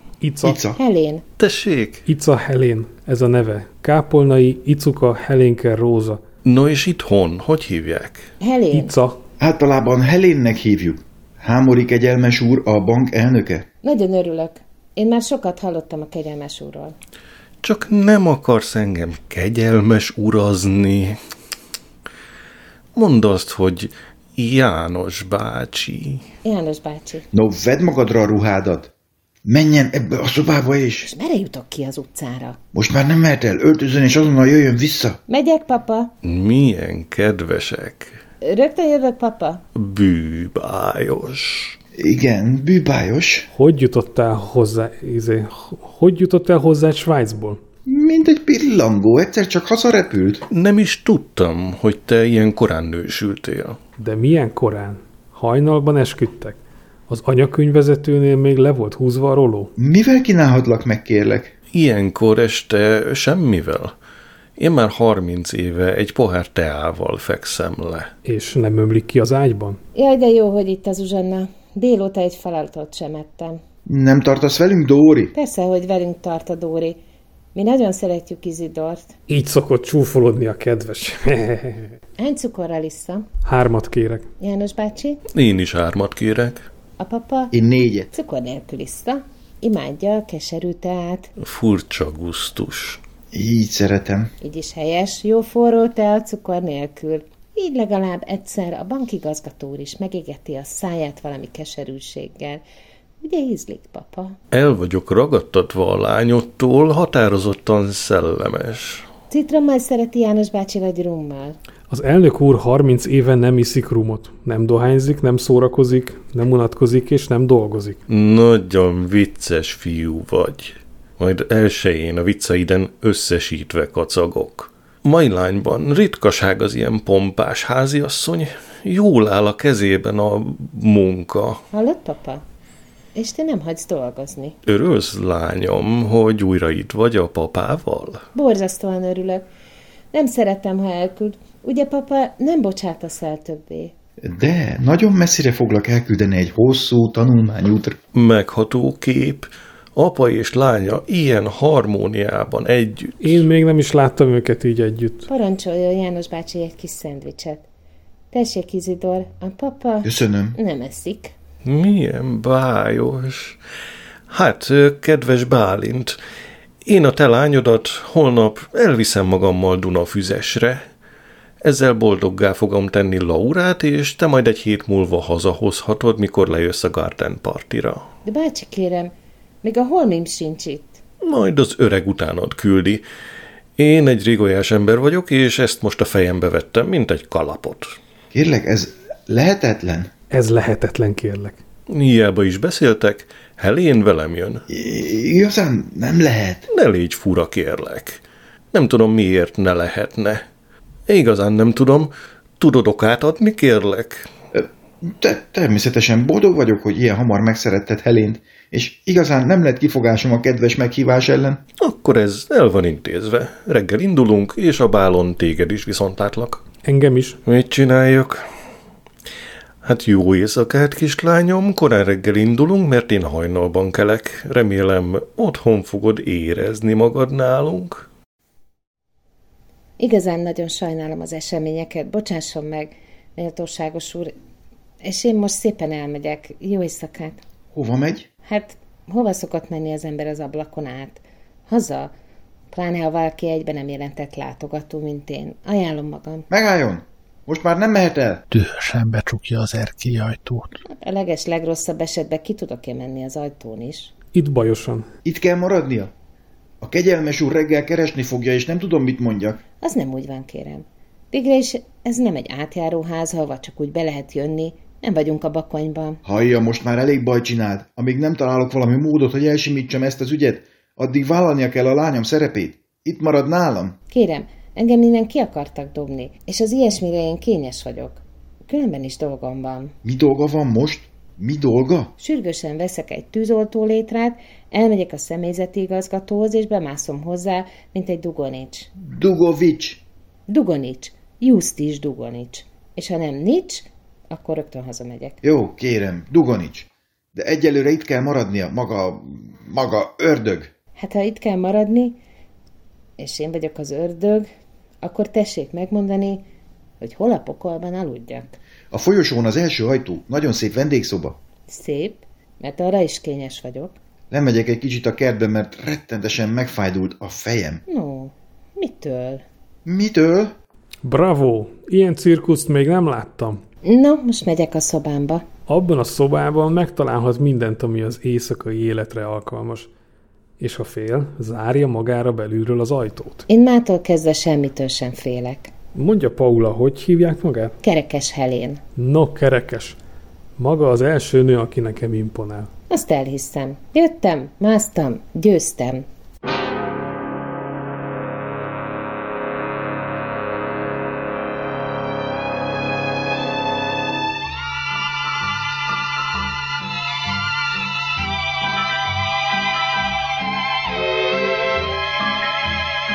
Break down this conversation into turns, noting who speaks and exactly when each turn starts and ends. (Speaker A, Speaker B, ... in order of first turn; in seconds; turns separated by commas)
Speaker A: 0.2-0.6, Speaker B: 0.4-0.8, Speaker C: 0.8-1.2, Speaker D: 1.4-2.0, Speaker A: 2.1-6.2, Speaker D: 6.5-8.3, Speaker C: 8.4-8.9, Speaker A: 8.7-9.2, Speaker B: 9.4-13.7, Speaker C: 13.8-16.9, Speaker D: 17.6-21.2, Speaker D: 22.9-26.2, Speaker C: 26.4-27.3, Speaker B: 27.3-28.9, Speaker B: 29.4-31.1, Speaker C: 31.1-32.6, Speaker B: 32.7-35.2, Speaker C: 35.3-36.1, Speaker D: 36.2-38.2, Speaker C: 38.4-39.6, Speaker D: 39.8-41.8, Speaker B: 42.0-43.5, Speaker A: 43.5-47.6, Speaker B: 47.9-50.5, Speaker D: 50.5-53.8, Speaker A: 54.0-59.7, Speaker B: 59.8-61.5, Speaker D: 61.7-63.9, Speaker D: 64.6-68.1, Speaker A: 68.2-69.8, Speaker C: 70.0-73.6, Speaker B: 73.9-75.3, Speaker C: 75.3-77.0, Speaker C: 77.5-79.2, Speaker A: 79.3-81.9, Speaker C: 82.2-83.3, Speaker A: 83.5-84.3, Speaker C: 84.4-85.2, Speaker D: 85.3-86.7, Speaker C: 87.0-87.5, Speaker B: 87.5-88.1, Speaker C: 88.1-91.3, Speaker D: 91.4-93.0, Speaker B: 93.3-94.3, Speaker C: 94.4-102.6, Speaker C: 103.2-104.4, Speaker D: 104.5-109.1, Speaker C: 109.3-111.6, Speaker A: 111.9-118.0, Speaker D: 118.1-131.7, Speaker C: 131.7-132.4, Speaker C: 133.2-134.6, Speaker D: 134.7-138.2, Speaker C: 138.3-139.5, Speaker C: 140.1-143.9, Speaker B: 144.2-148.0, Speaker D: 148.1-153.4, Speaker A: 153.2-155.3, Speaker C: 155.3-157.7, Speaker C: 158.3-161.3, Speaker B: 160.1-160.6, Speaker D: 161.6-163.6, Speaker D: 164.3-166.2, Speaker D: 166.8-170.8, Speaker D: 171.6-178.1, Speaker C: 178.2-179.1, Speaker C: 179.6-181.0, Speaker D: 181.2-183.0, Speaker D: 183.8-187.9, Speaker B: 188.3-190.1, Speaker A: 190.3-191.6, Speaker D: 191.9-194.6, Speaker B: 194.7-196.7, Speaker D: 196.7-198.2, Speaker D: 198.7-200.4, Speaker D: 201.1-204.3, Speaker B: 204.5-211.6, Speaker D: 211.8-216.6, Speaker A: 216.8-217.4, Speaker D: 217.5-218.4, Speaker D: 219.8-228.1, Speaker C: 230.0-234.3, Speaker C: 235.0-237.4, Speaker B: 237.7-238.3, Speaker C: 238.5-242.1, Speaker C: 242.7-246.5, Speaker B: 246.5-248.4, Speaker E: 248.5-250.8, Speaker C: 250.9-254.1, Speaker A: 254.3-255.1, Speaker B: 255.2-256.1, Speaker B: 256.8-259.6, Speaker C: 259.8-266.2, Speaker B: 266.2-274.0, Speaker C: 274.1-279.9, Speaker B: 280.0-282.1, Speaker C: 282.2-288.9, Speaker B: 289.1-290.0, Speaker C: 290.5-295.4, Speaker B: 295.4-300.7, Speaker C: 301.0-302.2, Speaker C: 303.2-304.5, Speaker C: 305.0-306.4, Speaker C: 307.0-308.6, Speaker B: 308.9-311.4, Speaker C: 311.7-313.9, Speaker B: 314.3-317.8, Speaker C: 317.9-319.4, Speaker B: 319.9-320.6, Speaker A: 321.0-323.6, Speaker C: 323.9-325.4, Speaker A: 325.7-329.9, Speaker A: 330.6-333.4, Speaker C: 333.5-335.7, Speaker A: 335.9-337.8, Speaker C: 337.8-338.8, Speaker A: 339.0-340.0, Speaker A: 340.6-342.7, Speaker C: 342.9-346.1